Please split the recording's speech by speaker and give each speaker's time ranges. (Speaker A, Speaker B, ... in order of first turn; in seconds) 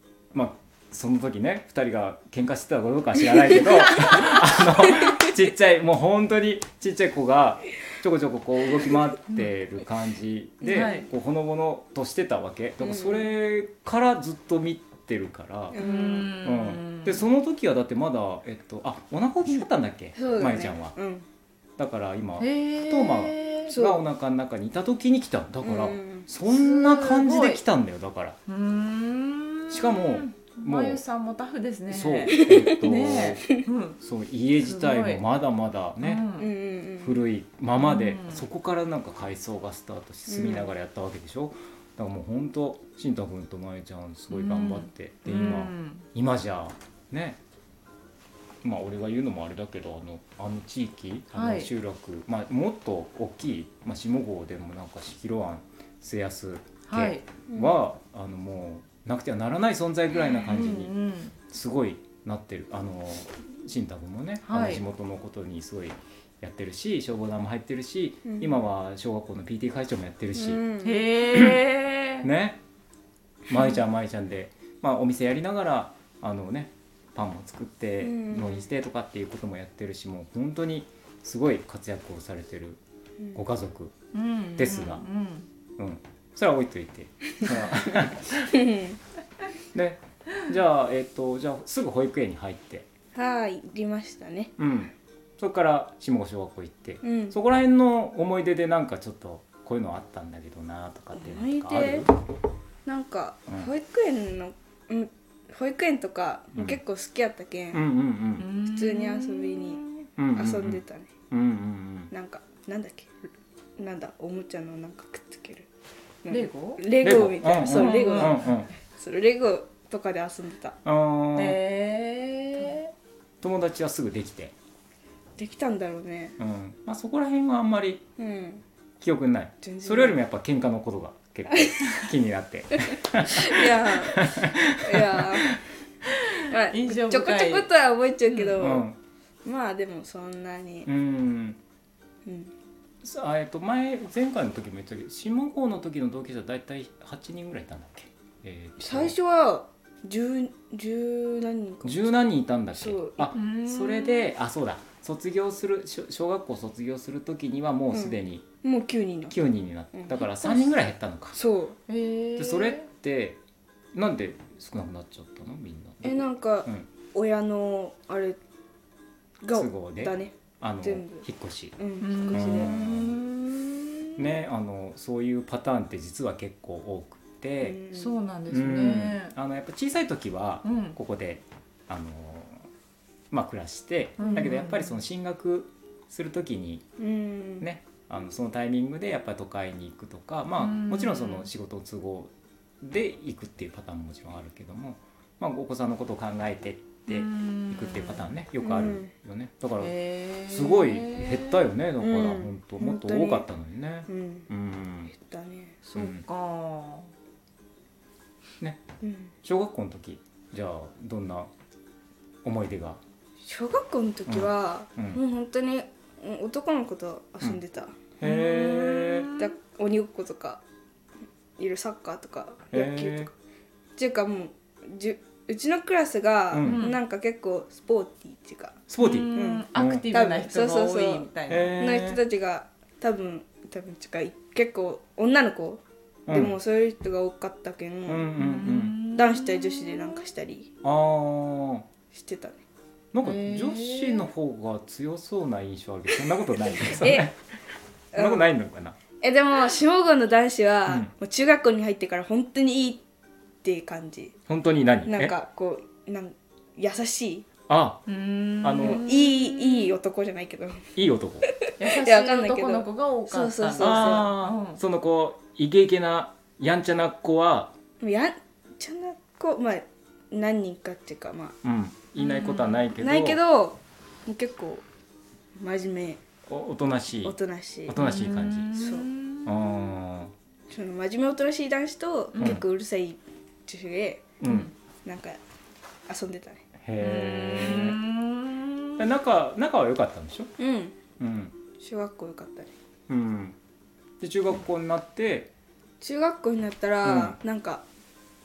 Speaker A: 0.3-15.8, 16.4-20.9, 21.8-28.4, 29.7-31.0, 31.9-36.2, 37.0-47.4, 48.6-60.9, 61.5-70.6, 72.2-72.6, 73.5-82.8, 83.3-83.9, 84.6-85.0, 85.8-88.5, 89.7-92.9, 94.6-102.1, 106.5-106.8, 107.7-108.5, 110.2-112.1, 117.0-118.7, 120.8-121.6, 123.4-124.5, 126.4-128.0, 129.0-135.6, 138.6-139.0, 140.8-141.6, 143.0-149.1, 151.8-158.4, 159.3-161.4, 162.4-163.4, 163.9-166.8, 169.5-171.8, 172.3-173.2, 174.2-177.8, 178.5-182.7, 183.3-186.8, 187.6-199.9, 200.4-205.1, 205.9-206.2, 209.4-211.5, 212.4-213.0, 214.3-215.2, 218.2-219.3, 222.7-223.3, 226.5-226.8, 228.9-230.1, 231.5-232.2, 236.3-236.6, 238.1-238.9, 240.8-241.9, 243.1-247.3, 248.1-248.9, 254.5-255.3, 257.7-258.0, 258.6-259.0, 260.9-261.5, 263.8-267.7, 271.6-273.4, 276.5-277.4, 277.9-278.7, 279.4-280.3, 284.4-284.7, 286.8-288.0, 289.0-290.5, 291.2-291.5, 293.1-293.6, 294.2-295.5, 297.0-297.4
Speaker B: 10.6-11.0, 12.8-13.3, 15.7-16.3, 20.1-21.2, 23.7-24.0, 25.6-26.3, 32.4-32.9, 36.4-37.2, 40.3-40.7, 57.5-57.7, 68.2-68.6, 70.3-71.3, 78.0-78.7, 88.5-89.0, 93.1-94.5, 97.0-97.3, 101.2-102.1, 102.8-107.8, 108.7-109.8, 110.3-111.1, 112.1-113.1, 113.8-115.7, 116.2-120.8, 125.4-126.4, 128.2-128.6, 129.6-130.2, 133.3-135.6, 136.4-138.8, 139.4-140.9, 142.2-142.5, 148.8-152.1, 152.7-153.3, 157.9-159.3, 159.9-160.7, 161.3-161.8, 166.0-168.4, 169.4-171.2, 171.8-172.7, 177.6-178.2, 187.0-187.6, 198.6-199.1, 202.0-203.5, 204.1-204.5, 205.1-205.8, 209.0-209.3, 213.4-218.0, 219.4-220.6, 221.6-223.3, 223.9-231.3, 231.8-238.3, 239.1-240.7, 242.1-242.6, 247.0-247.3, 248.1-248.5, 249.2-253.0, 253.6-254.3, 255.1-257.4, 258.8-260.9, 261.4-264.3, 268.0-271.6, 272.9-274.8, 275.6-276.2, 277.2-278.0, 278.8-279.1, 280.7-284.3, 285.0-285.4, 286.1-286.6, 290.6-290.9, 291.8-292.7, 296.0-297.8
Speaker C: 10.7-11.1, 15.8-17.2, 22.4-23.8, 26.4-27.6, 28.5-34.0, 34.6-35.2, 36.0-36.5, 37.8-38.4, 44.3-46.1, 51.3-51.7, 56.9-57.2, 60.2-61.4, 64.4-64.8, 70.8-72.3, 84.1-85.5, 108.4-110.0, 116.3-116.8, 117.6-118.4, 121.3-122.9, 136.1-137.7, 138.2-138.6, 153.3-154.3, 161.9-162.9, 172.0-174.2, 177.9-179.3, 180.6-181.0, 184.2-185.0, 190.6-191.5, 197.1-198.3, 199.8-201.7, 205.8-207.1, 218.2-219.5, 226.6-227.0, 229.0-231.9, 238.3-240.2, 243.2-244.3, 258.1-259.9, 261.8-264.8, 272.2-272.8, 277.9-279.8, 282.3-282.6, 284.4-284.7, 287.0-289.1